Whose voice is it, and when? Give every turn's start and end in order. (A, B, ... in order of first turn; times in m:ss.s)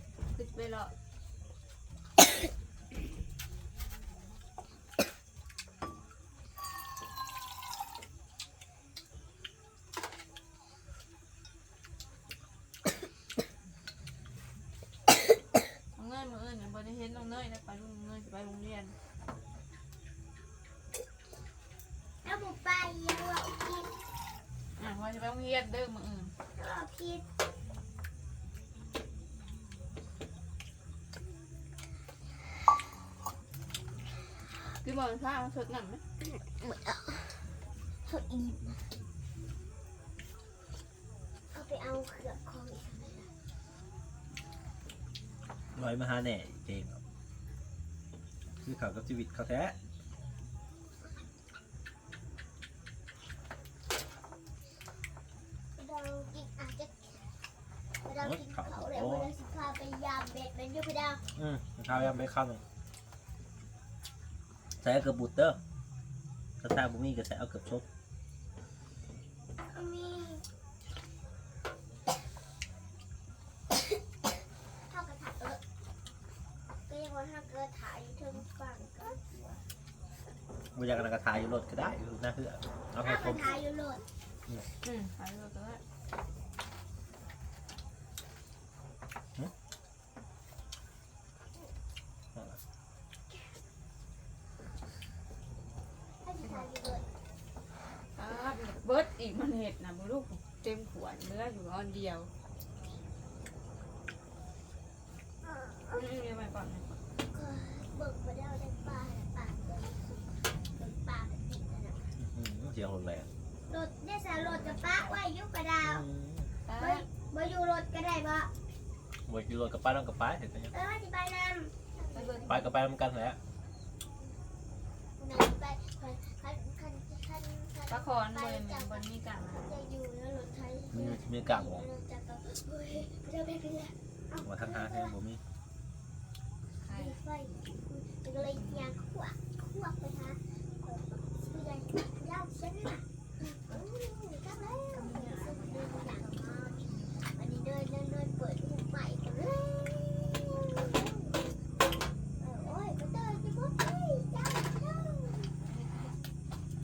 0:00.3-0:00.9 A
0:15.9-0:19.0 A
0:22.2-0:24.0 B
0:24.8-0:26.3 A
0:26.6-0:27.2 B
0:34.8-0:36.0 A
0:36.2-0:38.9 B
0:41.5-0:43.3 B
0:45.8-0:47.0 C
0:48.6-0:49.8 C
0:55.8-0:57.3 B
0:58.0-1:01.2 B
0:58.2-0:59.3 C
1:01.4-1:02.6 C
1:04.8-1:05.6 C
1:06.6-1:07.9 C
1:09.7-1:10.4 B
1:14.9-1:15.6 B
1:16.9-1:19.6 B
1:20.7-1:23.5 C
1:23.0-1:24.0 B
1:24.8-1:25.8 A
1:32.4-1:32.6 C
1:36.2-1:37.0 B
1:36.4-1:37.0 A
1:38.1-1:42.3 A
1:45.4-1:46.1 B
1:45.9-1:46.9 A
1:47.3-1:52.1 B
1:52.2-1:53.3 C
1:53.7-1:56.1 B
1:54.4-1:55.2 A
1:55.8-1:56.5 C
1:56.6-1:57.1 A
1:56.8-1:58.5 B
1:59.2-2:00.8 C
2:00.7-2:02.7 B
2:02.1-2:02.8 A
2:02.5-2:03.4 C
2:05.2-2:15.1 B
2:07.9-2:09.7 A
2:10.9-2:11.9 C
2:14.4-2:15.4 C
2:16.8-2:17.2 A
2:16.9-2:26.8 B
2:18.4-2:18.9 A
2:24.9-2:27.2 A
2:27.3-2:31.4 B
2:32.4-2:35.6 B
2:35.6-2:36.2 A